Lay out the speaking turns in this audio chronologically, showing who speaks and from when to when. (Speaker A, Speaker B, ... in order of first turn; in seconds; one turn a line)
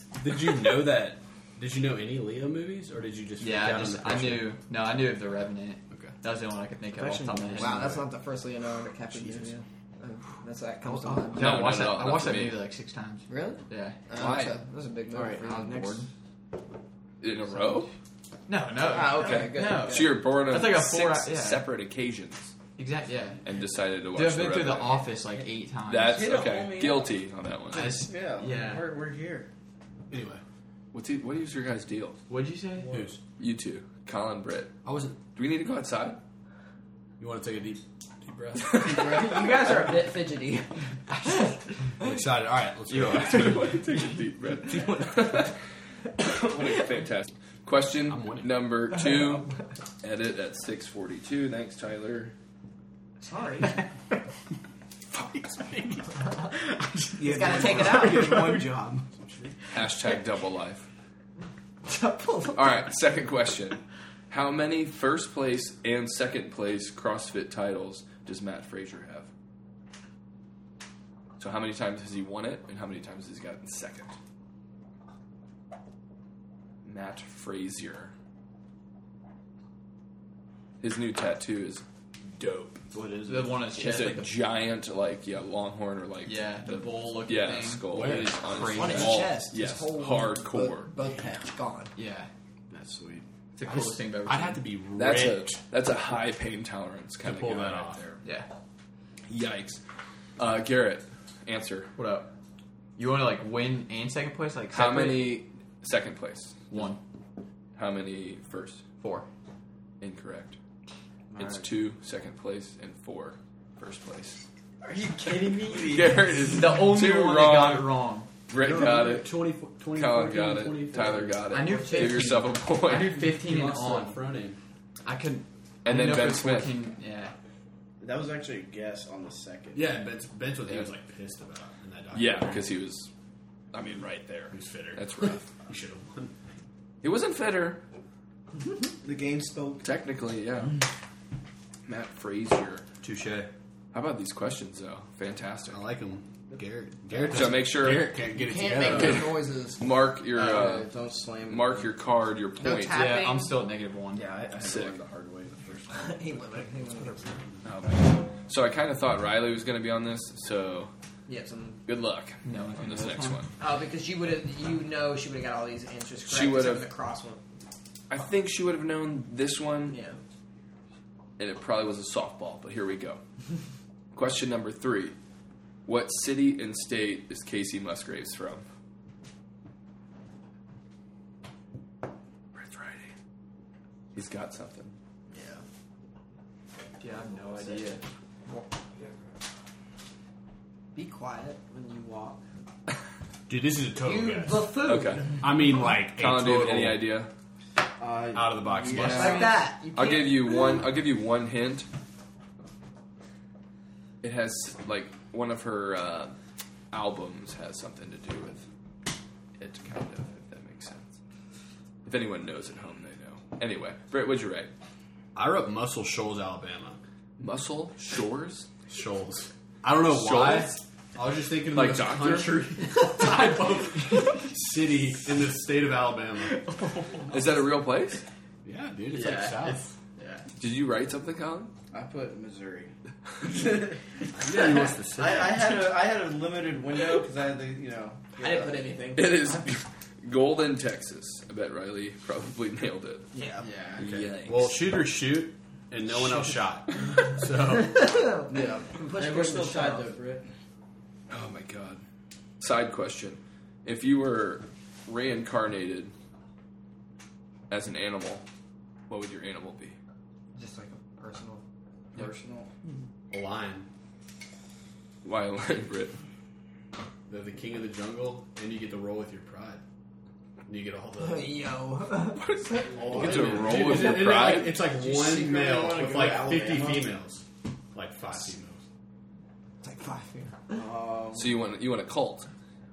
Speaker A: 0.2-4.5
Speaker B: 3.4-8.0
Speaker A: 5.9-6.2
Speaker C: 6.9-8.0
Speaker D: 7.5-11.6
Speaker C: 9.2-9.5
Speaker B: 10.9-14.0
Speaker E: 11.3-12.6
Speaker D: 13.3-15.5
Speaker E: 14.2-14.6
Speaker C: 15.1-16.0
Speaker B: 15.3-16.1
Speaker E: 17.2-17.9
Speaker B: 18.5-21.7
Speaker D: 18.8-20.1
Speaker E: 19.1-22.5
Speaker B: 22.8-23.4
Speaker E: 23.4-25.0
Speaker B: 24.1-26.1
Speaker E: 25.9-28.0
Speaker C: 26.1-27.1
Speaker B: 27.7-28.9
Speaker C: 27.7-29.5
Speaker A: 30.1-30.4
Speaker E: 30.9-32.2
Speaker B: 32.3-33.0
Speaker C: 32.8-33.0
Speaker A: 32.9-33.2
Speaker E: 33.4-34.8
Speaker A: 34.8-35.2
Speaker E: 35.3-36.2
Speaker A: 37.2-38.9
Speaker E: 38.6-39.4
Speaker D: 38.8-41.5
Speaker A: 42.0-43.8
Speaker E: 42.9-45.5
Speaker E: 46.2-49.5
Speaker A: 48.0-48.8
Speaker E: 50.0-52.3
Speaker D: 53.2-53.7
Speaker C: 56.5-59.5
Speaker D: 57.2-58.6
Speaker E: 59.7-60.9
Speaker D: 61.9-62.7
Speaker E: 62.5-69.3
Speaker E: 71.4-74.1
Speaker E: 76.8-78.1
Speaker E: 80.8-81.8
Speaker E: 82.3-82.8
Speaker C: 82.9-83.7
Speaker B: 83.3-84.3
Speaker E: 83.8-90.9
Speaker B: 86.2-89.3
Speaker A: 87.9-88.5
Speaker D: 88.7-91.9
Speaker B: 92.0-92.3
Speaker C: 92.7-93.2
Speaker B: 93.6-94.7
Speaker A: 93.7-95.5
Speaker E: 95.0-98.2
Speaker A: 97.2-98.1
Speaker B: 98.2-98.5
Speaker E: 99.3-99.8
Speaker E: 100.4-101.9
Speaker B: 102.0-102.3
Speaker B: 103.0-105.4
Speaker E: 104.7-106.9
Speaker B: 106.7-107.0
Speaker E: 107.8-108.8
Speaker B: 109.0-109.3
Speaker E: 110.0-110.6
Speaker C: 111.3-111.7
Speaker E: 111.4-114.4
Speaker C: 114.8-116.4
Speaker E: 115.8-118.0
Speaker B: 116.5-118.3
Speaker E: 118.5-119.3
Speaker A: 118.5-121.5
Speaker E: 119.9-123.3
Speaker B: 121.5-124.2
Speaker A: 123.3-124.6
Speaker B: 125.0-127.3
Speaker E: 125.8-126.8
Speaker C: 128.0-130.0
Speaker A: 129.7-132.7
Speaker E: 132.1-133.1
Speaker E: 133.7-135.5
Speaker A: 134.5-136.3
Speaker E: 137.0-137.8
Speaker C: 139.0-139.9
Speaker E: 139.8-140.8
Speaker E: 141.8-142.8
Speaker A: 143.0-143.5
Speaker E: 143.9-145.8
Speaker A: 145.7-149.4
Speaker C: 146.5-147.4
Speaker E: 147.3-148.1
Speaker D: 148.3-149.8
Speaker E: 148.8-150.9
Speaker C: 150.3-151.9
Speaker E: 151.4-153.1
Speaker D: 152.6-153.5
Speaker B: 152.9-154.3
Speaker C: 154.1-156.7
Speaker E: 154.6-155.0
Speaker D: 155.9-157.4
Speaker E: 157.6-160.9
Speaker D: 161.3-161.8
Speaker E: 161.9-163.5
Speaker B: 162.4-163.4
Speaker D: 163.6-167.4
Speaker E: 166.3-166.9
Speaker E: 168.1-170.0
Speaker D: 169.9-170.2
Speaker E: 171.4-173.2
Speaker E: 174.1-175.2
Speaker E: 175.8-178.6
Speaker E: 182.6-183.1
Speaker E: 184.1-184.9
Speaker D: 185.3-185.6
Speaker B: 187.0-188.0
Speaker C: 187.5-187.8
Speaker D: 190.9-192.4
Speaker A: 193.5-194.8
Speaker D: 194.0-195.3
Speaker E: 194.8-197.3
Speaker A: 195.4-197.1
Speaker C: 198.0-199.5
Speaker A: 198.3-199.5
Speaker B: 198.9-199.4
Speaker D: 199.0-200.8
Speaker E: 199.9-201.9
Speaker E: 204.2-206.3
Speaker E: 206.9-208.6
Speaker E: 209.6-211.2
Speaker E: 212.0-214.7
Speaker A: 215.3-217.0
Speaker E: 217.4-218.7
Speaker A: 218.9-226.6
Speaker E: 220.1-220.8
Speaker E: 221.7-224.2
Speaker E: 227.3-228.2
Speaker A: 228.6-229.9
Speaker B: 229.1-230.4
Speaker E: 230.6-231.7
Speaker C: 231.9-238.9
Speaker A: 234.3-235.8
Speaker D: 238.4-239.4
Speaker E: 239.1-243.3
Speaker D: 243.3-243.7
Speaker E: 244.0-244.8
Speaker A: 244.0-248.1
Speaker D: 247.6-250.1
Speaker C: 248.5-250.4
Speaker E: 251.3-252.0
Speaker E: 252.6-256.1
Speaker E: 257.7-258.4
Speaker E: 259.1-259.9
Speaker D: 260.5-261.6
Speaker C: 262.1-262.7
Speaker A: 263.3-263.9
Speaker E: 265.2-266.1
Speaker A: 267.3-269.8
Speaker A: 270.6-271.6
Speaker D: 271.2-272.8
Speaker E: 272.3-274.8
Speaker C: 272.9-274.3
Speaker A: 272.9-278.8
Speaker C: 274.9-277.2
Speaker D: 279.8-280.7
Speaker C: 280.7-281.5
Speaker E: 281.4-282.5